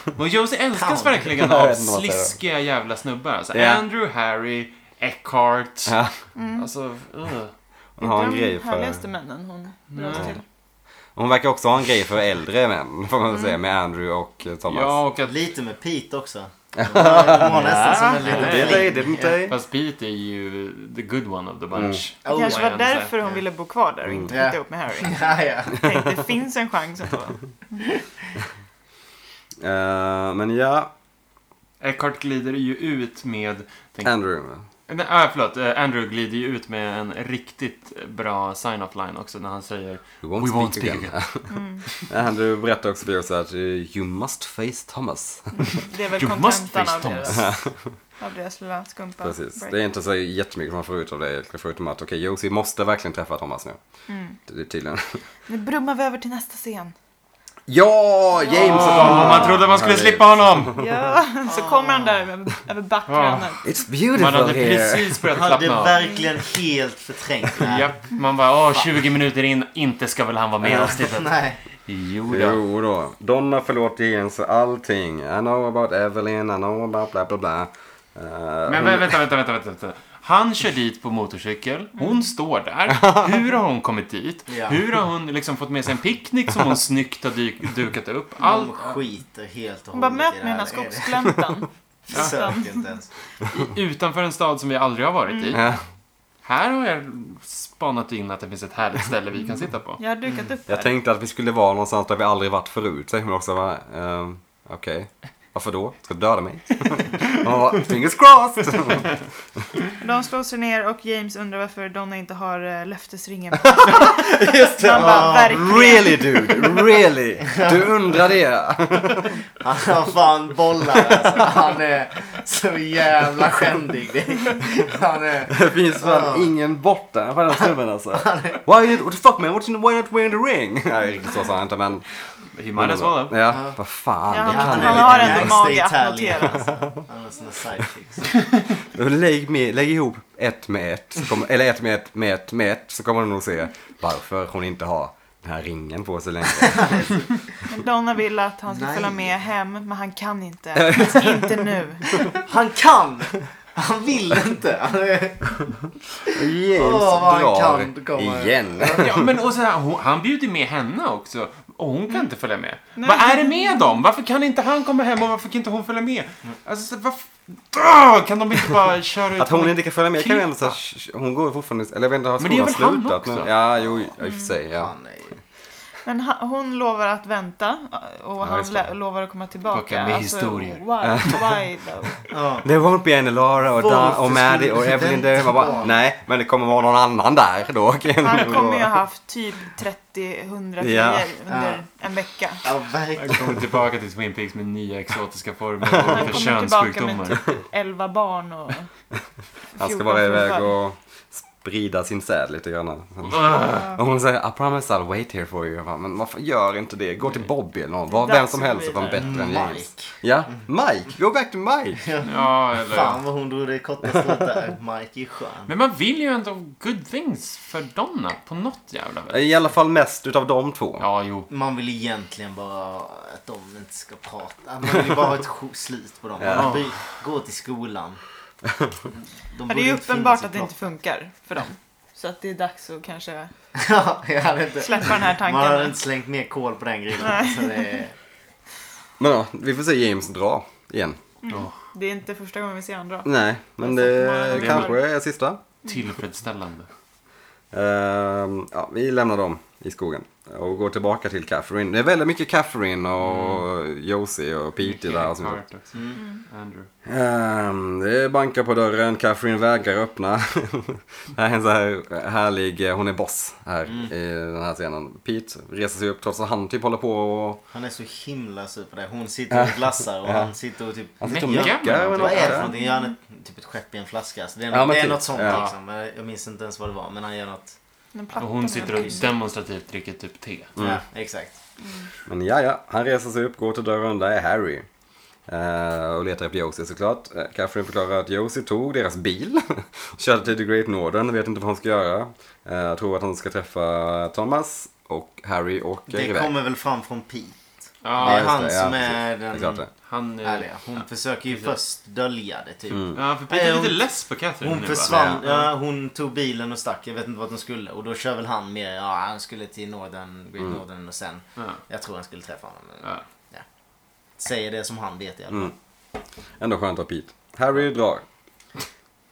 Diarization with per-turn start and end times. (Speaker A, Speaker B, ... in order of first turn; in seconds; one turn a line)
Speaker A: 0.1-5.9
Speaker B: 0.7-1.2
Speaker C: 1.4-2.4
Speaker C: 3.5-3.8
Speaker C: 5.9-6.2
Speaker D: 6.3-6.7
Speaker A: 6.5-7.5
Speaker C: 8.0-9.0
Speaker D: 8.0-10.4
Speaker A: 9.9-10.3
Speaker C: 11.2-15.0
Speaker D: 13.3-13.6
Speaker A: 14.7-15.4
Speaker B: 15.2-19.4
Speaker C: 16.7-17.7
Speaker A: 17.2-23.1
Speaker D: 17.8-18.3
Speaker C: 18.3-19.6
Speaker C: 21.7-22.0
Speaker B: 22.2-23.4
Speaker D: 22.3-27.5
Speaker B: 24.3-25.8
Speaker C: 29.6-30.9
Speaker A: 31.8-34.1
Speaker C: 34.0-34.6
Speaker A: 34.9-41.2
Speaker C: 40.2-45.6
Speaker D: 41.5-41.8
Speaker D: 45.6-47.6
Speaker A: 46.1-47.5
Speaker C: 47.4-47.7
Speaker D: 48.2-49.8
Speaker C: 49.2-53.8
Speaker D: 54.1-54.4
Speaker C: 54.5-55.2
Speaker D: 55.5-56.9
Speaker C: 57.7-60.7
Speaker D: 58.5-59.4
Speaker A: 58.5-60.8
Speaker D: 60.8-63.7
Speaker B: 61.5-62.3
Speaker A: 63.1-63.6
Speaker C: 63.6-65.2
Speaker A: 64.1-66.0
Speaker B: 65.3-67.9
Speaker D: 66.0-66.3
Speaker A: 67.6-72.6
Speaker C: 70.6-70.9
Speaker B: 70.9-71.6
Speaker C: 72.3-79.2
Speaker A: 78.7-89.0
Speaker C: 83.0-83.3
Speaker B: 84.5-84.8
Speaker B: 88.4-91.3
Speaker D: 89.9-92.8
Speaker B: 92.1-93.1
Speaker A: 92.1-92.4
Speaker A: 93.4-95.7
Speaker D: 95.3-95.6
Speaker C: 95.5-95.8
Speaker A: 96.4-100.0
Speaker D: 100.0-100.9
Speaker C: 100.7-109.2
Speaker D: 110.0-116.8
Speaker C: 113.6-119.4
Speaker B: 114.9-115.8
Speaker B: 117.5-117.8
Speaker B: 119.6-126.5
Speaker C: 125.5-132.1
Speaker B: 128.1-128.6
Speaker A: 132.5-133.4
Speaker C: 132.8-135.6
Speaker B: 133.5-133.8
Speaker D: 134.3-136.8
Speaker B: 134.4-138.3
Speaker C: 138.9-147.1
Speaker B: 146.6-147.3
Speaker D: 147.7-152.4
Speaker B: 148.7-149.4
Speaker C: 150.8-151.6
Speaker B: 152.3-155.7
Speaker B: 156.2-159.0
Speaker C: 156.3-159.3
Speaker A: 158.8-170.8
Speaker D: 163.0-163.9
Speaker C: 169.4-174.9
Speaker A: 172.4-173.5
Speaker B: 174.7-175.4
Speaker D: 176.0-182.3
Speaker C: 178.4-178.9
Speaker A: 179.7-181.3
Speaker C: 181.0-181.4
Speaker B: 182.3-182.7
Speaker C: 182.6-189.0
Speaker B: 183.7-185.9
Speaker D: 188.2-192.6
Speaker C: 190.8-191.3
Speaker B: 191.5-191.8
Speaker B: 192.6-193.6
Speaker A: 193.2-197.5
Speaker C: 195.9-196.4
Speaker D: 196.1-198.9
Speaker D: 199.8-200.7
Speaker C: 199.8-212.0
Speaker A: 203.3-203.8
Speaker D: 208.1-209.3
Speaker B: 209.1-210.1
Speaker B: 212.0-215.7
Speaker A: 212.2-213.2
Speaker A: 215.7-219.4
Speaker C: 219.3-221.1
Speaker A: 221.0-221.5
Speaker B: 221.5-228.2
Speaker C: 226.4-226.8
Speaker A: 226.5-226.9
Speaker B: 229.5-230.9
Speaker D: 229.7-233.5
Speaker B: 233.8-238.2
Speaker D: 234.8-236.0
Speaker D: 237.2-237.9
Speaker C: 239.2-241.2
Speaker D: 241.4-245.0
Speaker A: 241.5-241.7
Speaker C: 243.2-245.6
Speaker A: 244.5-244.9
Speaker A: 245.8-246.9
Speaker C: 247.7-255.6
Speaker A: 253.2-253.7
Speaker A: 254.8-256.9
Speaker B: 255.9-256.2
Speaker D: 256.2-256.4
Speaker C: 257.1-267.6
Speaker B: 263.9-264.1
Speaker B: 267.7-277.8
Speaker C: 269.5-270.5
Speaker C: 271.2-272.7
Speaker A: 271.2-272.7
Speaker D: 272.7-273.1
Speaker C: 274.7-275.6
Speaker A: 275.4-275.7
Speaker D: 278.1-279.3
Speaker A: 278.4-280.7
Speaker C: 280.8-281.0
Speaker B: 280.8-281.6
Speaker D: 281.8-282.1
Speaker C: 282.3-284.9
Speaker C: 285.5-296.5
Speaker B: 296.1-299.8
Speaker A: 298.0-298.6
Speaker C: 298.2-299.9
Speaker A: 300.0-301.8
Speaker B: 300.4-304.0
Speaker C: 302.9-303.2
Speaker A: 303.1-305.7
Speaker B: 304.6-313.6
Speaker C: 305.1-305.4
Speaker B: 314.4-315.7
Speaker C: 316.6-318.2